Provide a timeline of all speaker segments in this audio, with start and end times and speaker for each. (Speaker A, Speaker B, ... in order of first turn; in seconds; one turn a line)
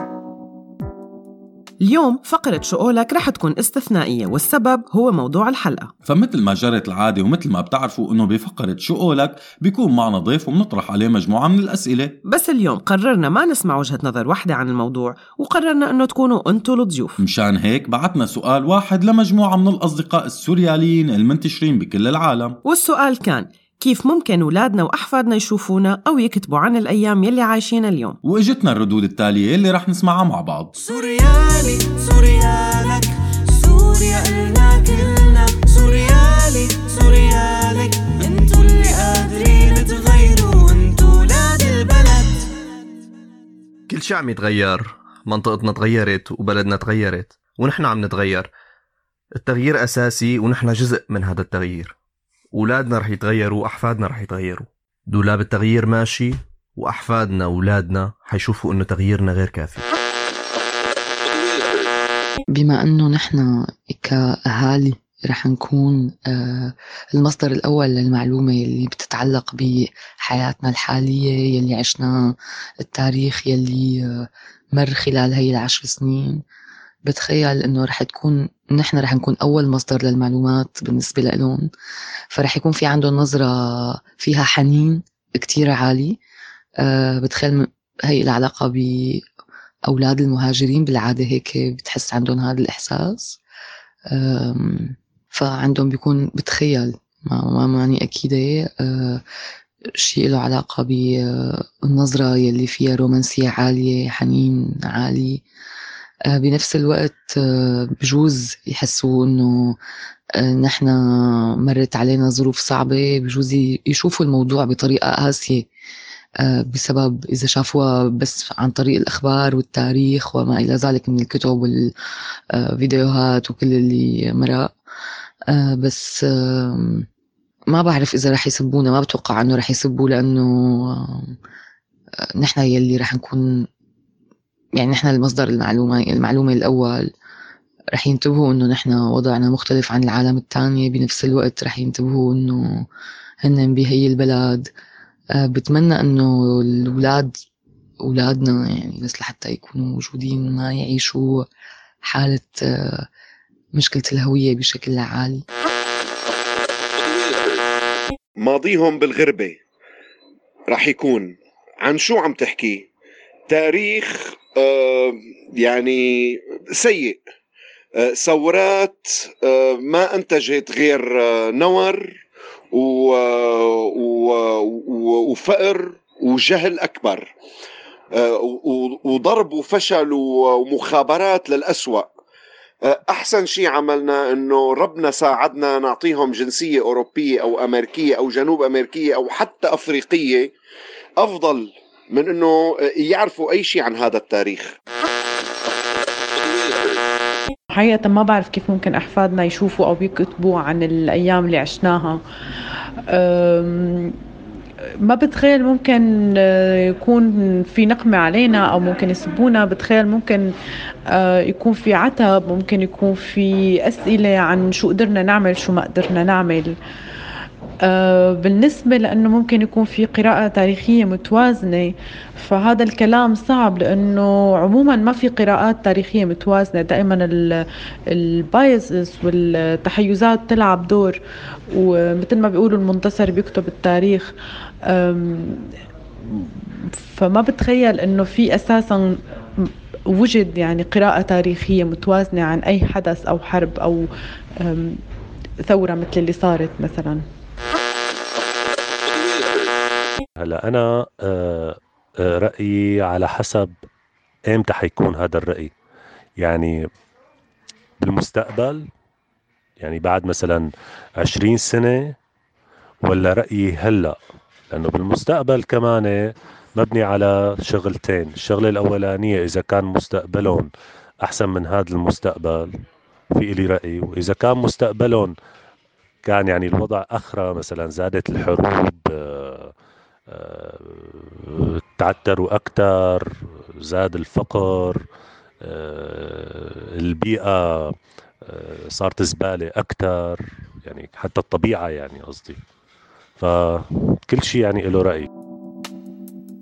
Speaker A: 1.8-5.9
Speaker B: 6.0-12.2
Speaker A: 12.2-17.2
Speaker B: 17.2-22.6
Speaker A: 22.6-28.2
Speaker B: 28.2-30.8
Speaker C: 30.9-42.5
Speaker A: 31.0-31.6
Speaker D: 44.0-48.5
Speaker D: 49.4-51.9
Speaker D: 52.6-59.8
Speaker E: 62.5-76.4
Speaker E: 77.0-81.7
Speaker E: 82.3-86.2
Speaker E: 86.8-89.2
Speaker E: 89.9-93.4
Speaker E: 94.1-99.2
Speaker E: 100.0-105.4
Speaker E: 106.3-109.8
Speaker E: 110.4-115.7
Speaker E: 116.4-121.9
Speaker E: 122.5-124.7
Speaker E: 125.5-127.0
Speaker E: 127.7-131.3
Speaker E: 132.4-133.7
Speaker E: 134.8-137.1
Speaker E: 137.9-142.8
Speaker E: 143.4-144.7
Speaker E: 145.3-147.3
Speaker E: 148.0-151.4
Speaker E: 152.0-153.1
Speaker E: 153.7-155.4
Speaker F: 158.4-159.6
Speaker F: 160.7-161.2
Speaker F: 161.8-162.8
Speaker F: 163.5-164.1
Speaker F: 164.6-165.1
Speaker F: 165.6-166.0
Speaker F: 166.8-167.2
Speaker F: 168.2-168.9
Speaker F: 169.9-171.0
Speaker F: 171.6-172.0
Speaker F: 175.3-177.0
Speaker F: 179.2-180.2
Speaker F: 180.7-182.1
Speaker F: 183.1-190.5
Speaker F: 191.2-192.5
Speaker F: 193.1-194.6
Speaker G: 197.7-202.2
Speaker G: 203.1-204.2
Speaker G: 205.0-210.5
Speaker G: 211.1-216.7
Speaker G: 217.8-227.6
Speaker G: 228.1-231.2
Speaker G: 231.7-234.3
Speaker G: 234.9-235.7
Speaker G: 236.2-244.1
Speaker G: 244.6-245.0
Speaker G: 245.6-247.2
Speaker H: 250.4-253.7
Speaker H: 254.5-255.7
Speaker H: 256.4-256.8
Speaker H: 258.0-258.8
Speaker H: 259.8-260.7
Speaker H: 261.2-262.1
Speaker H: 263.0-264.1
Speaker H: 264.7-270.7
Speaker H: 271.2-272.7
Speaker H: 273.3-275.3
Speaker H: 276.2-279.7
Speaker H: 280.3-283.3
Speaker H: 283.8-285.0
Speaker H: 285.6-287.9
Speaker H: 288.5-292.6
Speaker H: 293.4-295.3